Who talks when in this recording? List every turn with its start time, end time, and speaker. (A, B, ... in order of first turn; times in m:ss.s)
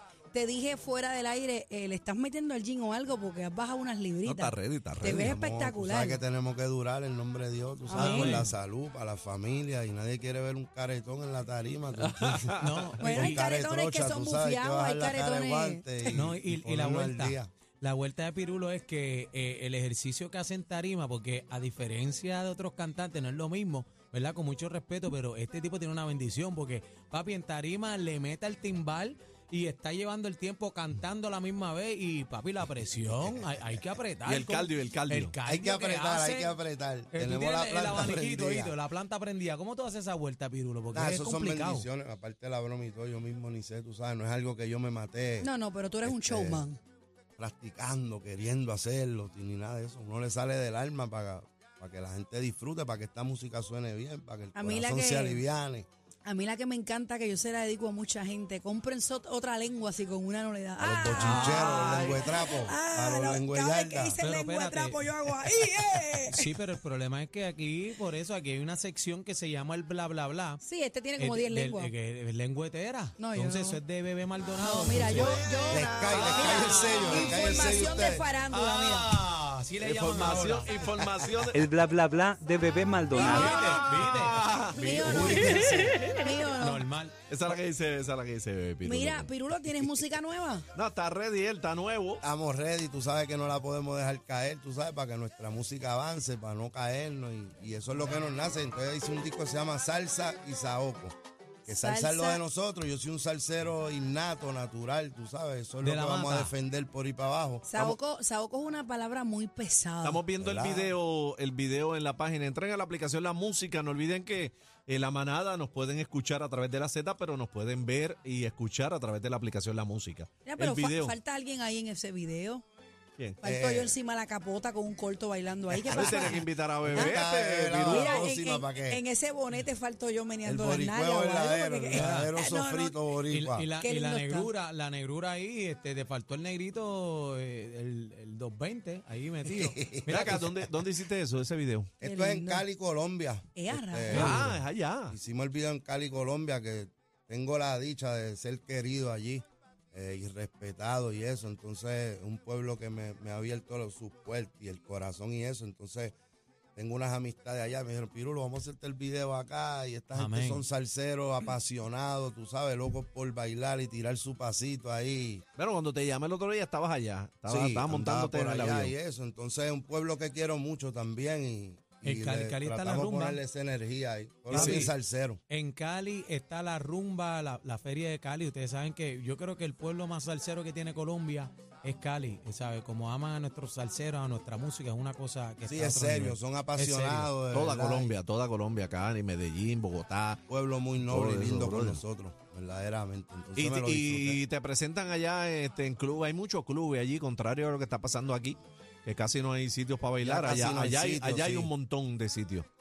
0:00.3-0:06.2 A
0:04.2-0:05.4 B
0:05.1-0:17.5 C
0:07.9-0:08.4 A
0:07.9-0:08.5 D
0:12.0-0:12.7 B
0:12.6-0:13.4 D
0:13.0-0:15.9 A
0:16.1-0:36.6 D
0:33.0-0:33.8 C
0:34.3-0:35.3 B
0:35.4-0:38.8 C
0:37.1-0:41.9 D
0:40.9-0:45.5 C
0:45.4-0:46.8 A
0:46.0-0:46.7 C
0:47.4-0:55.9 C
0:54.6-0:55.4 A
0:56.3-1:06.4 A
1:00.8-1:04.2 C
1:01.2-1:02.1 D
1:01.2-1:02.2 B
1:04.2-1:05.2 D
1:06.2-1:10.6 D
1:10.6-1:11.9 A
1:11.2-1:15.6 D
1:13.2-1:13.8 A
1:14.6-1:19.1 A
1:15.2-1:18.2 C
1:16.1-1:17.7 D
1:18.5-1:20.7 D
1:19.8-1:21.7 B
1:21.5-1:23.7 E
1:23.1-1:24.4 D
1:23.1-1:24.0 A
1:23.2-1:25.4 B
1:24.6-1:26.9 A
1:24.9-1:26.1 C
1:26.6-1:27.2 D
1:27.3-1:30.0 B
1:28.8-1:30.7 A
1:30.7-1:32.2 B
1:32.2-1:41.2 C
1:41.7-1:42.4 A
1:41.7-1:48.0 C
1:45.8-1:46.5 D
1:47.7-1:50.2 A
1:50.0-2:01.2 B
1:50.4-1:50.9 C
2:00.4-2:02.6 A
2:03.4-2:07.2 A
2:03.4-2:03.9 C
2:05.8-2:08.2 B
2:06.0-2:06.3 C
2:06.8-2:09.0 C
2:07.9-2:13.0 A
2:10.4-2:13.7 C
2:11.9-2:12.3 D
2:13.3-2:20.6 D
2:13.8-2:14.5 A
2:19.4-2:20.4 C
2:20.1-2:21.9 B
2:22.0-2:36.1 C
2:22.0-2:22.6 A
2:23.6-2:24.3 A
2:24.1-2:24.5 D
2:24.1-2:25.2 B
2:36.8-2:45.4 C
2:40.1-2:40.6 D
2:45.6-2:48.9 B
2:47.5-2:55.4 C
2:52.0-2:53.4 D
2:54.5-2:54.9 B
2:54.5-2:54.9 D
2:55.5-3:07.3 D
3:05.7-3:08.1 C
3:07.5-3:10.4 B
3:10.5-3:14.4 C
3:11.0-3:12.0 B
3:13.6-3:22.7 B
3:20.2-3:21.7 C